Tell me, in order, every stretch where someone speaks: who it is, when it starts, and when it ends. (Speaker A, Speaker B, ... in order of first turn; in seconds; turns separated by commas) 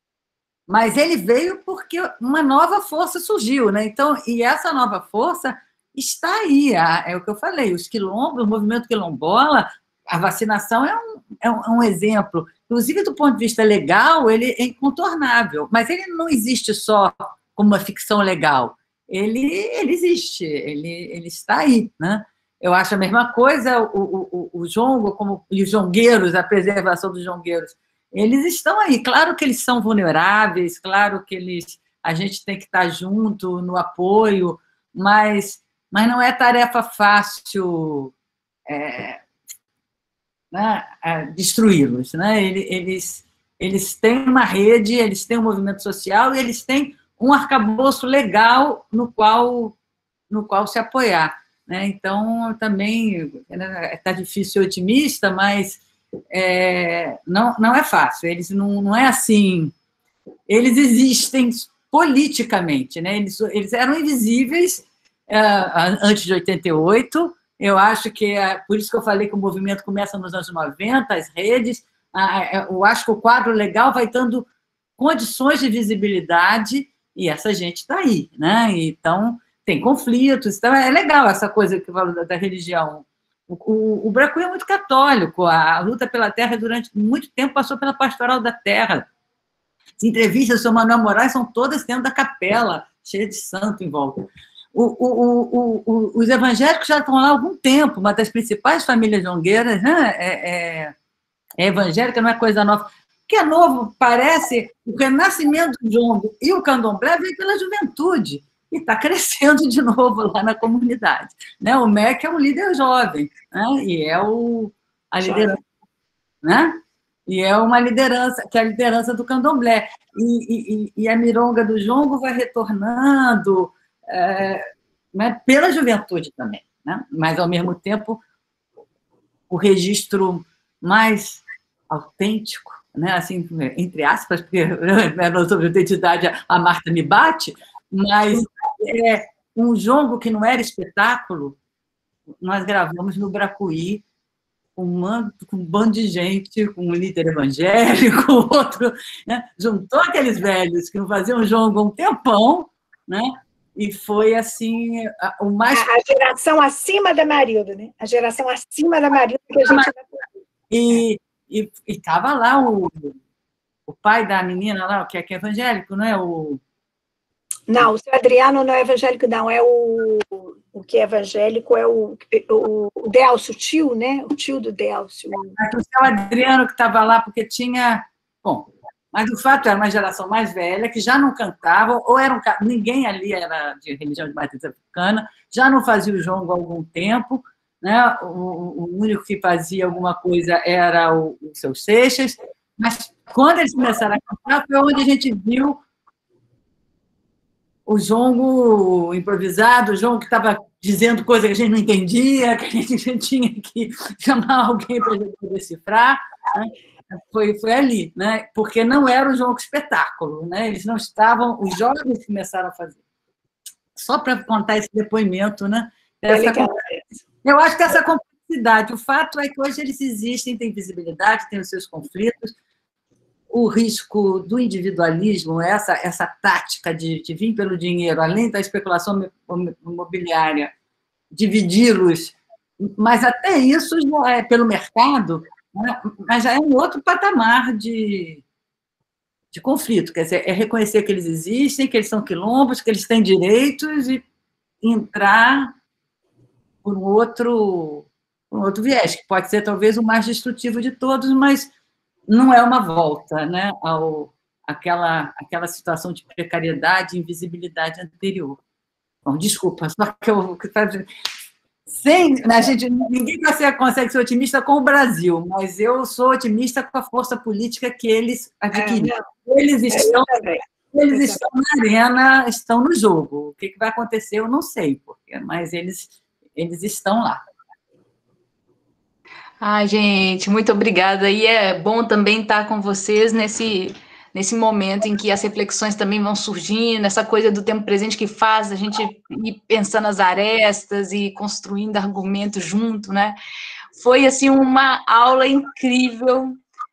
Speaker A: 0.7-38.1, Speaker A: 38.7-39.2, Speaker A: 40.5-49.7, Speaker A: 50.3-55.8, Speaker A: 56.3-59.7, Speaker A: 60.5-74.5, Speaker A: 75.0-89.1, Speaker A: 90.0-100.9, Speaker A: 101.6-115.6, Speaker B: 115.2-115.6, Speaker A: 116.4-124.6, Speaker A: 125.1-128.2, Speaker A: 129.5-141.6, Speaker A: 142.4-144.0, Speaker A: 144.8-155.9, Speaker B: 155.7-160.2, Speaker A: 159.6-159.9, Speaker A: 160.7-163.1, Speaker A: 163.9-166.6, Speaker B: 167.7-175.6, Speaker A: 175.5-195.8, Speaker A: 197.9-213.0, Speaker A: 213.9-216.7, Speaker B: 216.3-217.0, Speaker A: 217.4-222.5, Speaker A: 223.5-230.7, Speaker A: 231.3-238.4, Speaker A: 239.5-244.2, Speaker A: 244.8-245.7, Speaker A: 246.8-251.7, Speaker A: 252.3-258.6, Speaker A: 259.2-261.1, Speaker A: 261.9-270.3, Speaker B: 262.4-262.7, Speaker B: 268.7-269.2, Speaker B: 269.9-271.4, Speaker A: 270.9-277.4, Speaker C: 279.6-293.4, Speaker C: 293.9-296.5